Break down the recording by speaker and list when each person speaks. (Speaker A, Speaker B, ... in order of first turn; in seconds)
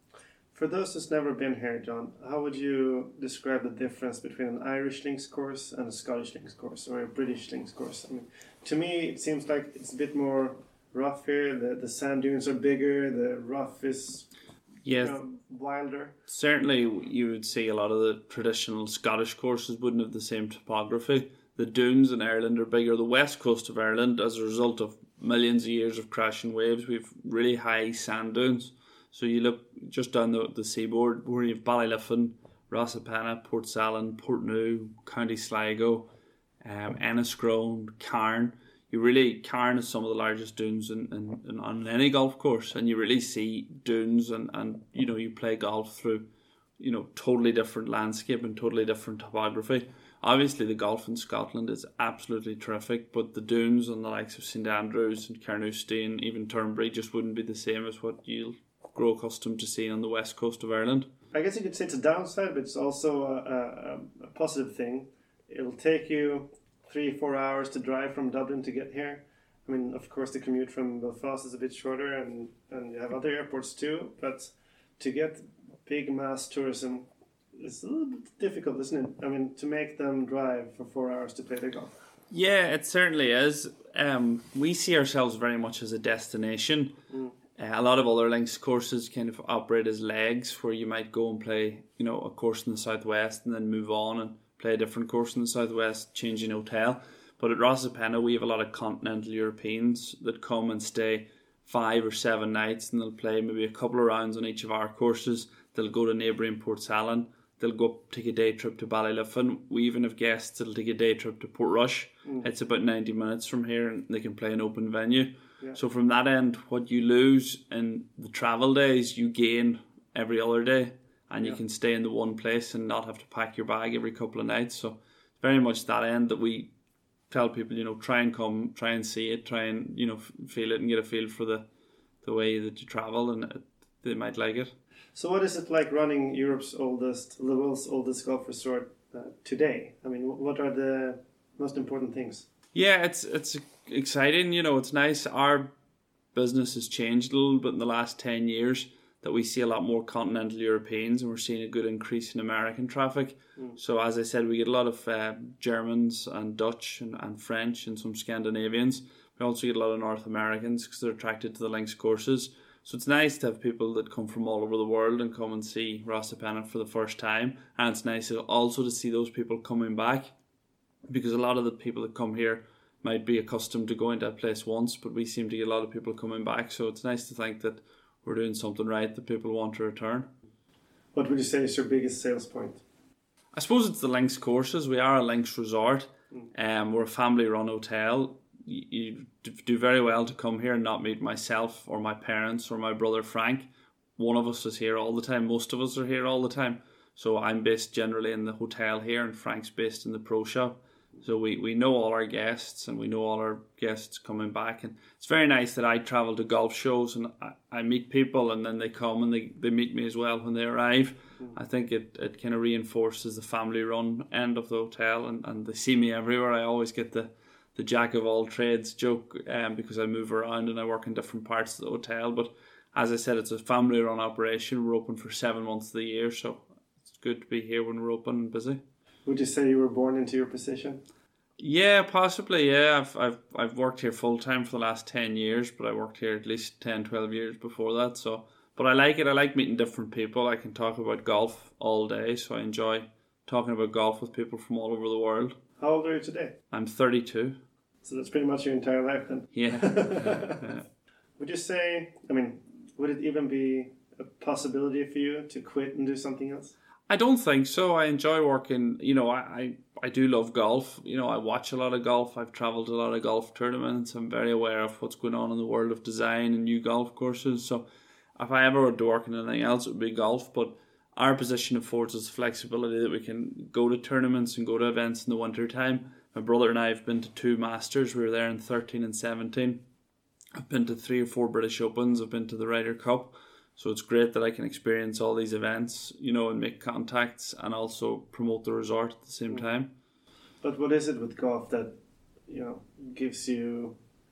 Speaker A: 0.5-14.3, 15.0-16.1, 61.3-81.9, 135.2-142.4, 181.1-182.8, 229.3-231.0, 245.8-246.6, 248.0-250.8, 251.4-256.8, 290.6-291.9, 292.5-294.0
Speaker B: 14.8-15.2, 16.3-36.1, 36.6-46.3, 46.8-61.1, 82.3-87.0, 87.6-126.7, 127.3-131.7, 132.2-134.7, 142.8-145.7, 146.3-170.3, 171.1-180.3, 183.5-228.8, 231.6-245.6, 246.7-247.6, 249.5-250.8, 257.1-279.8, 280.6-289.9